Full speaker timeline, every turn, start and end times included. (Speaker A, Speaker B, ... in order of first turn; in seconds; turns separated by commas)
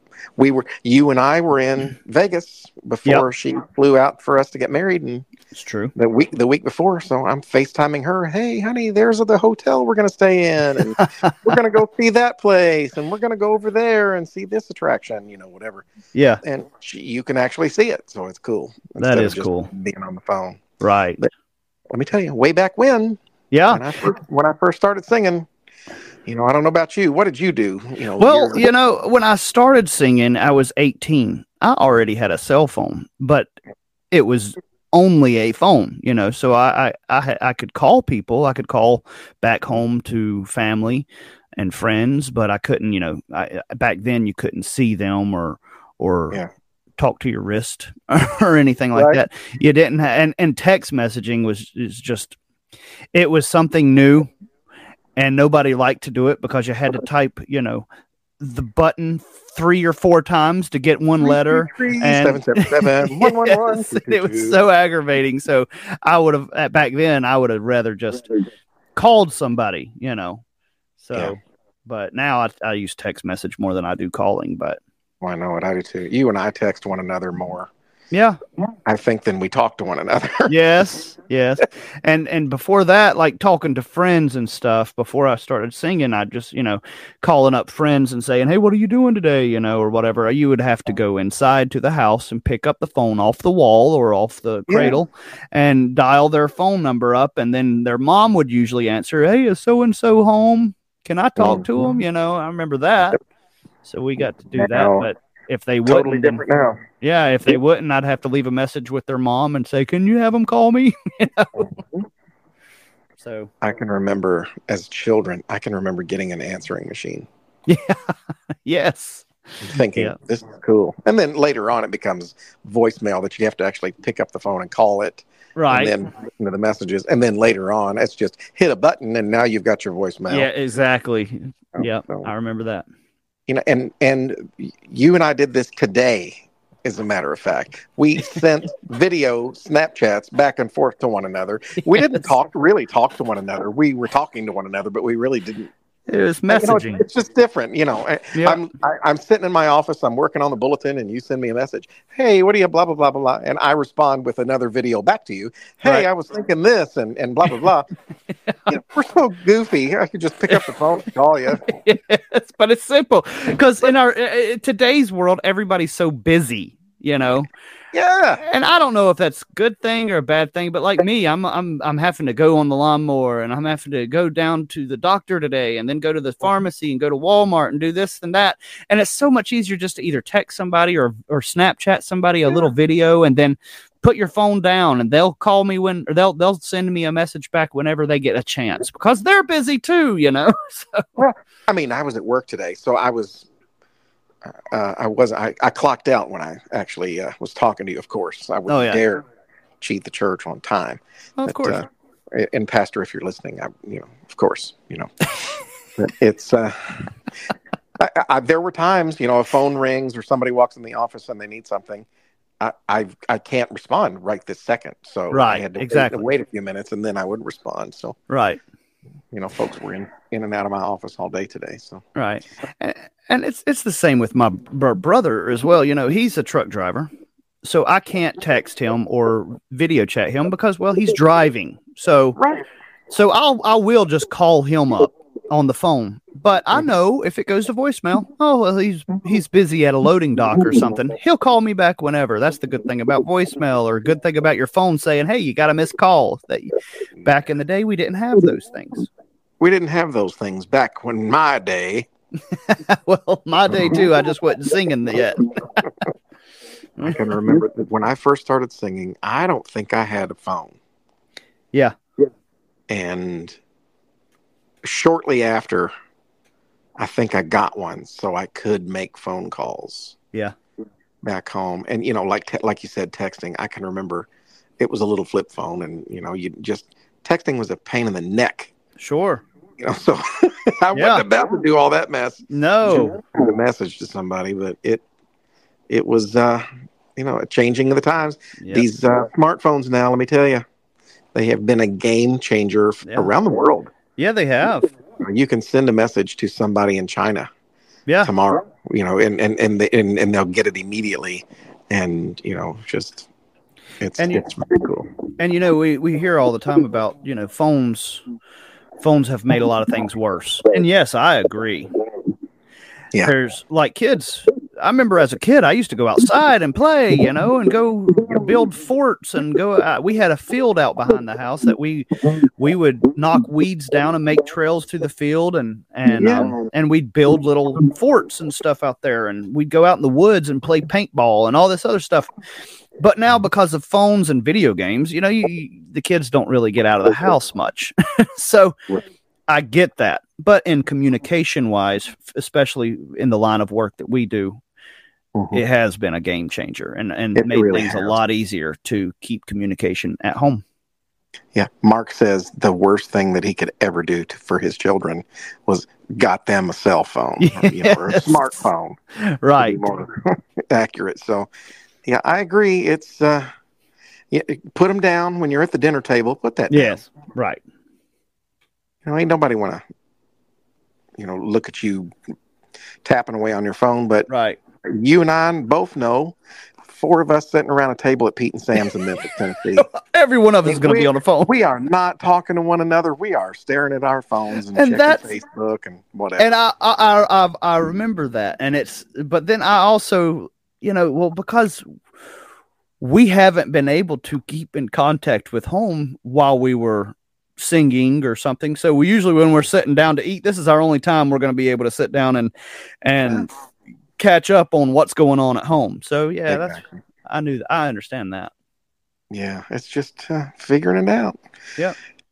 Speaker A: 0.4-5.2, Speaker B: 5.5-5.9, Speaker A: 5.9-15.9, Speaker B: 11.0-11.4, Speaker B: 16.1-16.4, Speaker A: 16.4-20.6, Speaker B: 19.0-19.7, Speaker B: 20.8-21.2, Speaker A: 21.9-23.2, Speaker B: 23.5-23.8, Speaker A: 23.7-25.5, Speaker A: 26.2-28.7, Speaker B: 28.2-33.5, Speaker B: 34.1-46.4, Speaker B: 47.0-52.4, Speaker A: 48.9-49.2, Speaker B: 53.1-54.3, Speaker B: 55.2-57.9, Speaker B: 58.4-70.4, Speaker A: 61.2-64.6, Speaker B: 71.0-74.8, Speaker A: 75.2-77.7, Speaker B: 78.1-78.4, Speaker A: 78.8-80.9, Speaker B: 80.5-103.2, Speaker A: 94.7-95.0, Speaker A: 101.4-101.7, Speaker B: 103.8-106.4, Speaker A: 104.5-105.1, Speaker A: 105.8-106.8, Speaker B: 107.0-111.7, Speaker A: 111.6-112.1, Speaker B: 113.2-113.5, Speaker A: 113.6-117.3, Speaker B: 117.7-120.1, Speaker A: 119.6-130.5, Speaker B: 125.5-125.9, Speaker B: 130.3-132.8, Speaker A: 131.7-132.3, Speaker A: 133.5-145.7, Speaker B: 141.8-142.3, Speaker B: 146.1-147.0, Speaker A: 146.5-157.9, Speaker B: 148.3-148.6, Speaker A: 158.7-161.7, Speaker B: 161.6-167.5, Speaker A: 167.9-168.4, Speaker B: 168.4-191.1, Speaker A: 191.2-193.5, Speaker A: 194.4-199.2, Speaker B: 198.7-199.0, Speaker A: 199.8-205.1, Speaker B: 201.4-201.8, Speaker A: 206.0-207.1, Speaker A: 208.0-212.1, Speaker A: 212.6-218.2, Speaker B: 215.3-216.2, Speaker B: 218.3-218.6, Speaker A: 219.3-222.0, Speaker B: 222.1-227.1, Speaker B: 227.6-232.4, Speaker A: 232.3-232.6, Speaker B: 233.1-249.1, Speaker A: 249.6-252.1, Speaker B: 252.5-255.5, Speaker A: 253.7-254.0, Speaker B: 257.0-257.2, Speaker A: 257.0-260.8, Speaker A: 262.9-263.6, Speaker A: 264.8-265.9, Speaker A: 267.0-270.1, Speaker A: 271.2-274.3, Speaker A: 274.8-278.7, Speaker B: 279.0-279.4, Speaker A: 279.8-285.0, Speaker B: 280.9-281.2, Speaker B: 282.5-283.2, Speaker A: 285.9-286.6, Speaker A: 287.1-290.6, Speaker B: 288.6-288.9, Speaker A: 291.3-293.9, Speaker B: 293.1-293.3, Speaker B: 294.2-294.9, Speaker A: 295.2-297.5, Speaker B: 298.1-298.3, Speaker A: 298.2-303.3, Speaker A: 304.0-305.1, Speaker B: 304.2-304.4, Speaker B: 305.4-308.2, Speaker B: 309.0-311.9, Speaker B: 313.2-332.3, Speaker A: 326.1-326.6, Speaker B: 333.0-338.8, Speaker B: 339.5-344.6, Speaker A: 345.3-345.6, Speaker B: 345.5-350.6, Speaker A: 347.4-348.1, Speaker A: 351.5-359.0, Speaker B: 357.4-359.8, Speaker A: 359.6-361.5, Speaker A: 362.0-363.5, Speaker A: 364.3-367.0, Speaker B: 366.7-367.6, Speaker A: 369.0-369.8, Speaker A: 371.2-372.1, Speaker A: 373.0-374.3, Speaker B: 374.3-374.6, Speaker A: 374.8-379.9, Speaker B: 379.7-381.5, Speaker A: 380.6-386.5, Speaker B: 384.7-385.3, Speaker B: 386.4-391.8, Speaker B: 393.0-402.5, Speaker B: 403.0-403.5, Speaker B: 404.2-408.5, Speaker A: 406.5-406.9, Speaker A: 409.3-411.4